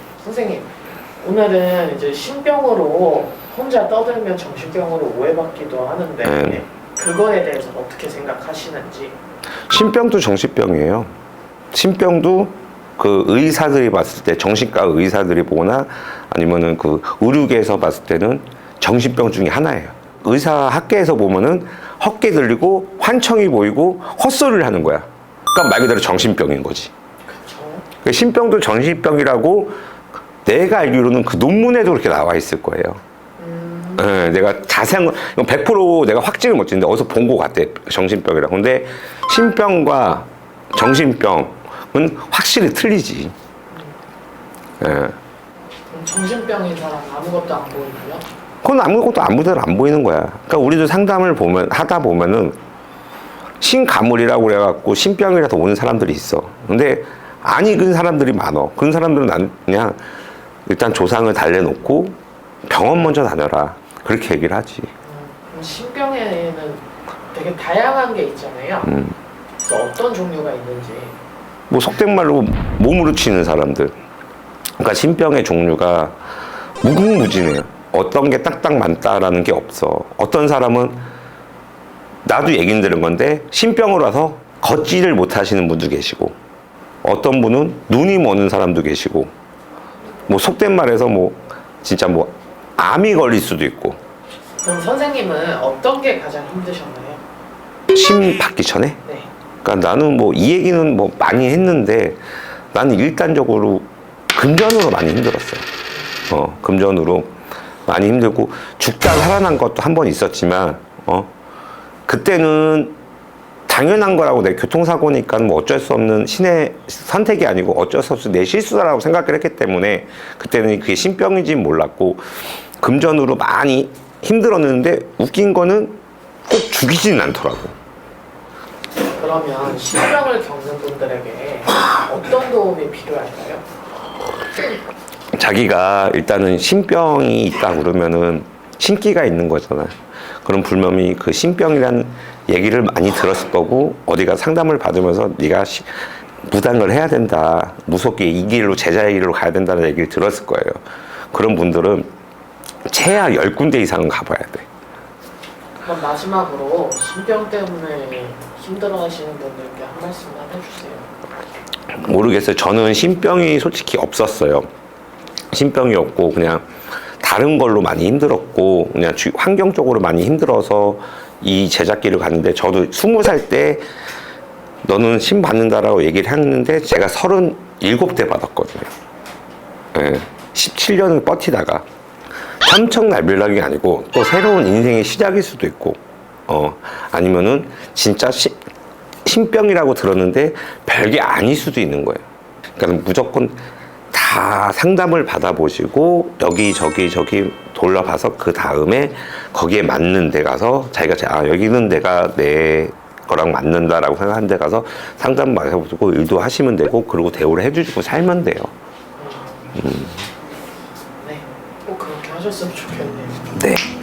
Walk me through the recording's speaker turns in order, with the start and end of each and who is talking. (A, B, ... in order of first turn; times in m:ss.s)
0:00.2-0:09.2 A
0:06.2-0:06.6 B
0:09.7-0:11.1 B
0:11.7-0:26.9 B
0:27.3-0:27.8 A
0:28.0-0:29.7 B
0:30.4-0:33.0 B
0:33.4-0:34.1 A
0:34.0-0:43.3 B
0:44.8-0:45.2 B
0:45.9-0:48.2 A
0:48.6-0:52.6 B
0:53.6-1:00.0 B
1:00.6-1:04.9 B
1:05.0-1:09.0 A
1:08.8-1:09.1 B
1:09.6-1:11.2 A
1:11.7-1:13.9 B
1:14.8-1:16.2 B
1:16.8-1:21.0 B
1:22.2-1:26.4 B
1:27.0-1:29.3 B
1:30.3-1:34.0 B
1:34.6-1:37.2 A
1:37.9-1:39.0 B
1:39.0-1:39.3 A
1:39.6-1:42.2 B
1:42.7-1:45.6 B
1:46.3-1:47.3 B
1:47.8-1:51.3 B
1:52.1-1:52.9 B
1:53.7-2:02.2 B
2:02.8-2:07.7 B
2:09.2-2:13.6 A
2:15.3-2:25.9 B
2:26.4-2:30.8 B
2:31.3-2:32.1 B
2:32.9-2:34.6 B
2:35.8-2:41.1 A
2:41.9-2:44.7 B
2:45.5-2:46.6 B
2:47.2-2:53.8 B
2:54.8-2:58.9 B
2:59.9-3:01.8 B
3:02.6-3:08.6 B
3:09.2-3:12.2 B
3:12.8-3:13.6 B
3:14.1-3:28.7 B
3:29.2-3:29.8 A
3:29.8-3:30.1 B
3:31.2-3:33.5 A
3:33.5-3:33.9 B